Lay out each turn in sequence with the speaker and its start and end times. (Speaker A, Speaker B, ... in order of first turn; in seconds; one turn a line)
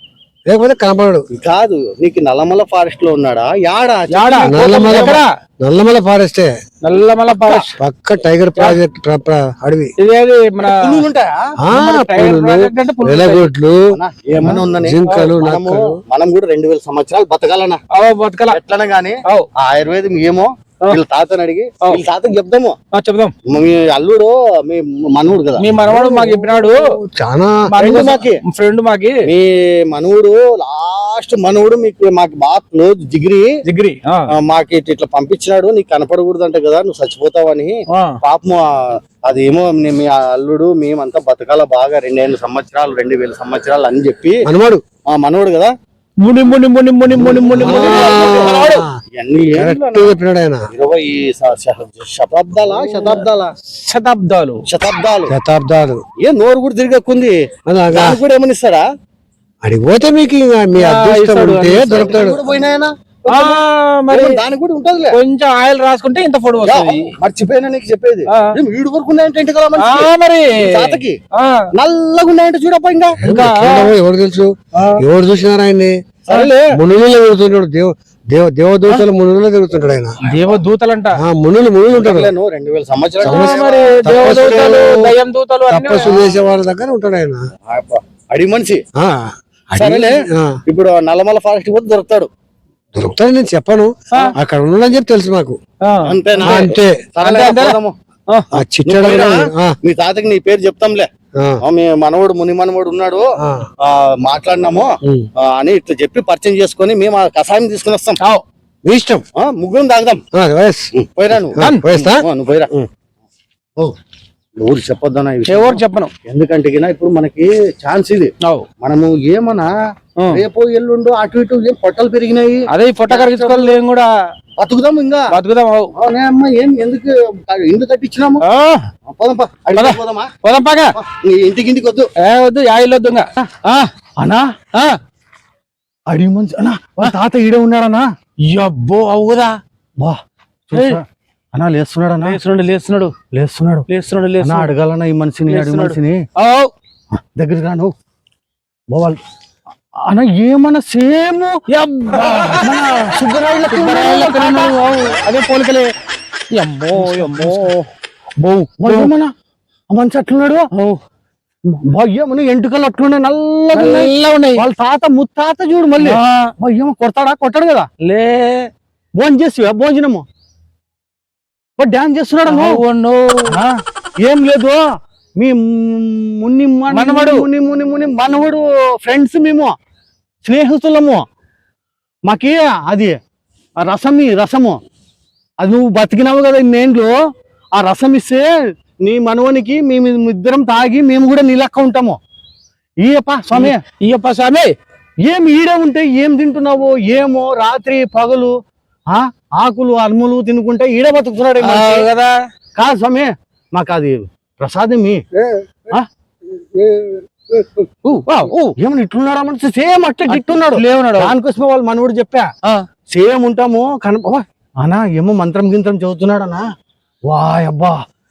Speaker A: 0.5-1.2
Speaker B: 1.3-5.2
Speaker C: 4.1-5.3
Speaker A: 4.5-6.5
Speaker C: 6.8-7.8
Speaker B: 7.4-7.7
Speaker A: 7.8-9.9
Speaker C: 10.0-11.0
Speaker B: 10.6-11.5
Speaker A: 11.6-13.8
Speaker C: 11.7-13.5
Speaker B: 13.9-17.8
Speaker A: 14.4-16.0
Speaker C: 15.1-15.3
Speaker C: 17.9-18.6
Speaker B: 18.5-22.8
Speaker C: 22.9-23.3
Speaker B: 23.5-25.7
Speaker C: 25.6-26.8
Speaker A: 25.8-27.6
Speaker C: 27.7-29.2
Speaker B: 27.8-28.4
Speaker B: 29.3-33.5
Speaker C: 33.7-34.3
Speaker B: 34.4-44.4
Speaker A: 44.5-44.8
Speaker B: 45.1-45.7
Speaker C: 46.2-48.9
Speaker A: 47.1-48.9
Speaker B: 47.2-48.6
Speaker B: 49.2-50.1
Speaker A: 49.5-50.6
Speaker B: 50.7-53.5
Speaker C: 53.8-54.6
Speaker B: 54.7-55.3
Speaker A: 55.3-56.0
Speaker B: 56.2-57.4
Speaker A: 57.7-58.2
Speaker B: 57.9-58.9
Speaker A: 59.6-62.4
Speaker C: 60.8-62.1
Speaker B: 61.9-65.2
Speaker C: 63.3-64.4
Speaker C: 65.1-67.1
Speaker B: 66.6-71.2
Speaker C: 69.8-71.6
Speaker B: 71.8-73.2
Speaker A: 73.2-76.0
Speaker C: 73.2-74.0
Speaker B: 76.3-76.6
Speaker C: 76.3-76.6
Speaker A: 76.8-80.2
Speaker C: 80.3-81.2
Speaker A: 81.2-82.3
Speaker B: 81.9-84.9
Speaker A: 83.2-85.2
Speaker C: 83.3-86.2
Speaker A: 85.7-87.4
Speaker B: 86.0-86.3
Speaker B: 87.7-88.8
Speaker A: 89.0-90.5
Speaker B: 89.8-92.3
Speaker A: 93.0-95.6
Speaker C: 95.8-96.7
Speaker B: 96.1-97.9
Speaker A: 96.4-97.1
Speaker C: 97.2-98.5
Speaker A: 98.5-99.8
Speaker B: 98.8-101.1
Speaker B: 101.6-103.3
Speaker A: 103.4-103.7
Speaker B: 103.8-108.2
Speaker A: 108.8-109.2
Speaker B: 109.4-110.2
Speaker A: 110.3-112.9
Speaker B: 111.0-112.7
Speaker B: 114.6-119.7
Speaker C: 115.5-116.1
Speaker B: 120.3-123.8
Speaker C: 122.7-124.1
Speaker B: 124.6-125.3
Speaker C: 125.3-125.9
Speaker B: 126.0-128.4
Speaker C: 128.4-128.9
Speaker B: 129.1-130.3
Speaker C: 129.8-130.9
Speaker B: 130.9-132.1
Speaker C: 132.2-133.9
Speaker B: 134.2-134.5
Speaker B: 136.1-138.1
Speaker C: 138.4-139.6
Speaker B: 140.7-142.4
Speaker C: 140.7-141.0
Speaker C: 142.2-143.1
Speaker B: 143.3-143.8
Speaker C: 143.9-144.7
Speaker B: 144.4-146.2
Speaker C: 145.5-146.7
Speaker B: 147.4-147.9
Speaker B: 148.9-149.2
Speaker B: 150.1-151.6
Speaker C: 151.7-152.8
Speaker B: 152.2-155.1
Speaker C: 153.7-155.9
Speaker C: 156.5-157.9
Speaker B: 156.9-157.7
Speaker B: 158.4-159.3
Speaker C: 158.8-159.1
Speaker B: 159.9-160.7
Speaker C: 160.7-161.0
Speaker B: 161.7-167.9
Speaker C: 163.8-164.6
Speaker C: 166.0-166.5
Speaker C: 168.0-168.7
Speaker B: 169.2-170.2
Speaker B: 171.8-172.8
Speaker C: 172.5-173.5
Speaker B: 174.2-174.8
Speaker B: 175.4-179.7
Speaker C: 176.9-177.4
Speaker B: 180.4-181.2
Speaker B: 182.3-183.1
Speaker B: 183.8-184.8
Speaker B: 185.6-187.2
Speaker B: 187.8-188.5
Speaker B: 189.0-192.2
Speaker B: 193.0-193.8
Speaker C: 193.5-194.7
Speaker B: 195.3-198.5
Speaker B: 199.1-202.1
Speaker C: 201.6-202.3
Speaker B: 202.8-205.2
Speaker B: 207.5-208.2
Speaker C: 208.3-208.7
Speaker B: 208.8-212.5
Speaker C: 210.3-211.3
Speaker B: 213.1-216.7
Speaker B: 217.3-218.0